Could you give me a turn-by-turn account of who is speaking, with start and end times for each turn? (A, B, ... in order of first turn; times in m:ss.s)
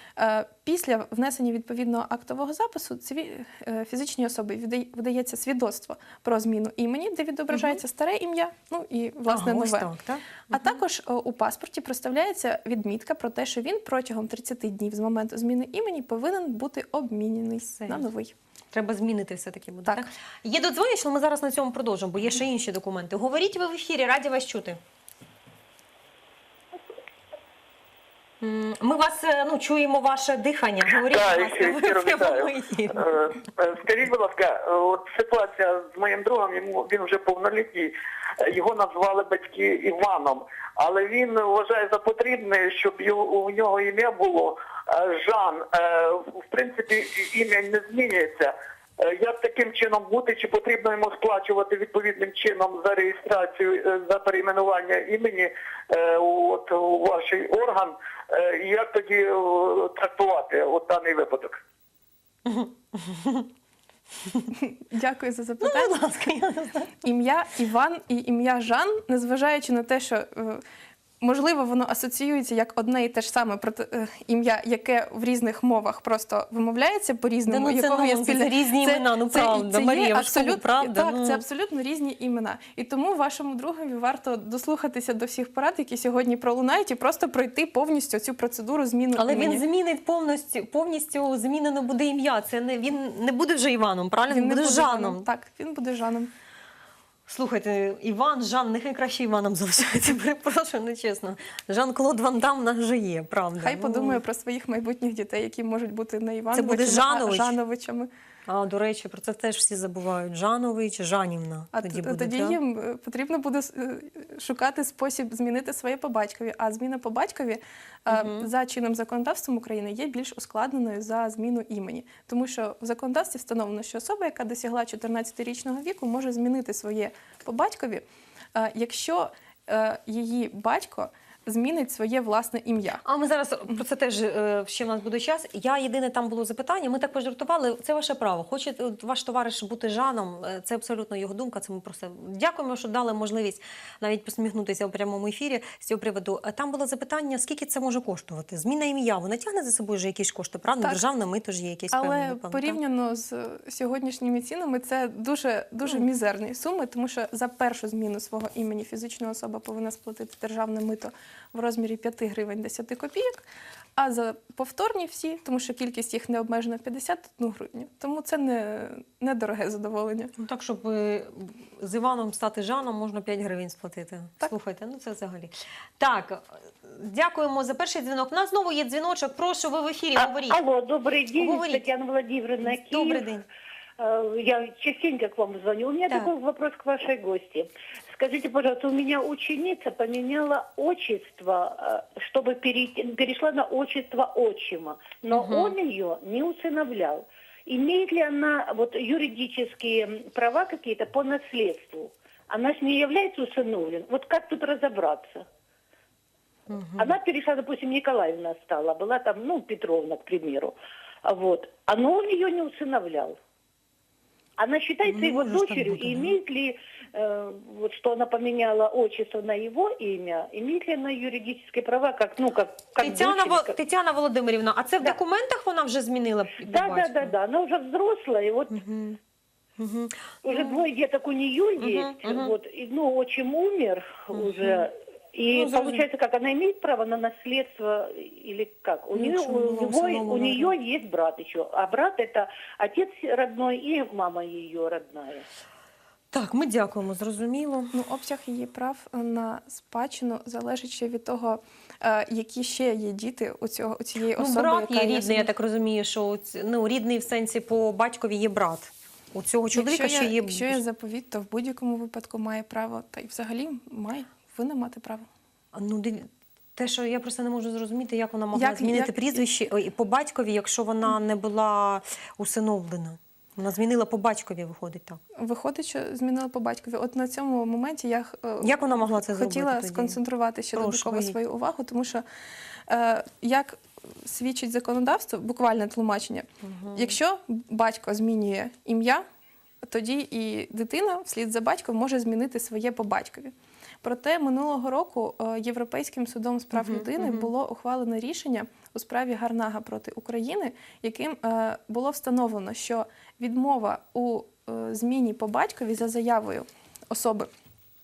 0:00.2-0:09.9 A
0:07.5-0:07.8 B
0:09.3-0:10.8 B
0:10.5-0:18.3 A
0:17.7-0:18.0 B
0:18.7-0:24.8 B
0:28.4-0:33.0 B
0:31.0-1:01.6 C
1:02.5-1:03.5 B
1:04.6-1:06.1 A
1:05.6-1:07.0 B
1:07.0-1:10.6 A
1:11.2-1:29.6 A
1:17.5-1:21.4 B
1:29.2-1:35.3 B
1:34.3-1:36.3 A
1:37.3-1:44.2 B
1:43.6-1:48.1 A
1:46.5-1:47.6 B
1:48.5-1:52.6 B
1:51.7-2:08.0 A
1:58.1-1:58.5 B
2:08.6-2:13.0 A
2:13.0-2:32.8 B
2:31.9-2:43.4 A
2:44.0-2:50.3 A
2:50.4-3:00.6 B
3:00.2-3:03.3 D
3:01.4-3:01.9 B
3:02.7-3:03.5 B
3:04.0-3:25.4 D
3:15.3-3:15.8 B
3:26.7-3:27.2 B
3:27.0-3:30.7 D
3:31.2-3:33.4 D
3:34.6-3:43.8 D
3:35.1-3:36.4 B
3:43.0-3:47.3 B
3:46.6-3:48.8 D
3:48.7-3:49.2 B
3:49.8-3:50.8 B
3:50.4-4:05.4 D
3:51.8-3:52.5 B
3:54.3-3:54.9 B
3:55.5-3:56.0 B
3:59.2-4:00.7 B
4:06.3-4:07.9 B
4:07.9-4:15.5 A
4:14.4-4:20.8 B
4:19.7-4:25.2 A
4:25.7-4:35.2 B
4:28.5-4:29.5 A
4:35.4-4:42.2 A
4:38.6-4:40.2 B
4:40.7-4:41.4 B
4:42.9-4:49.2 A
4:46.6-4:47.2 B
4:49.9-5:07.5 A
4:56.7-4:57.5 B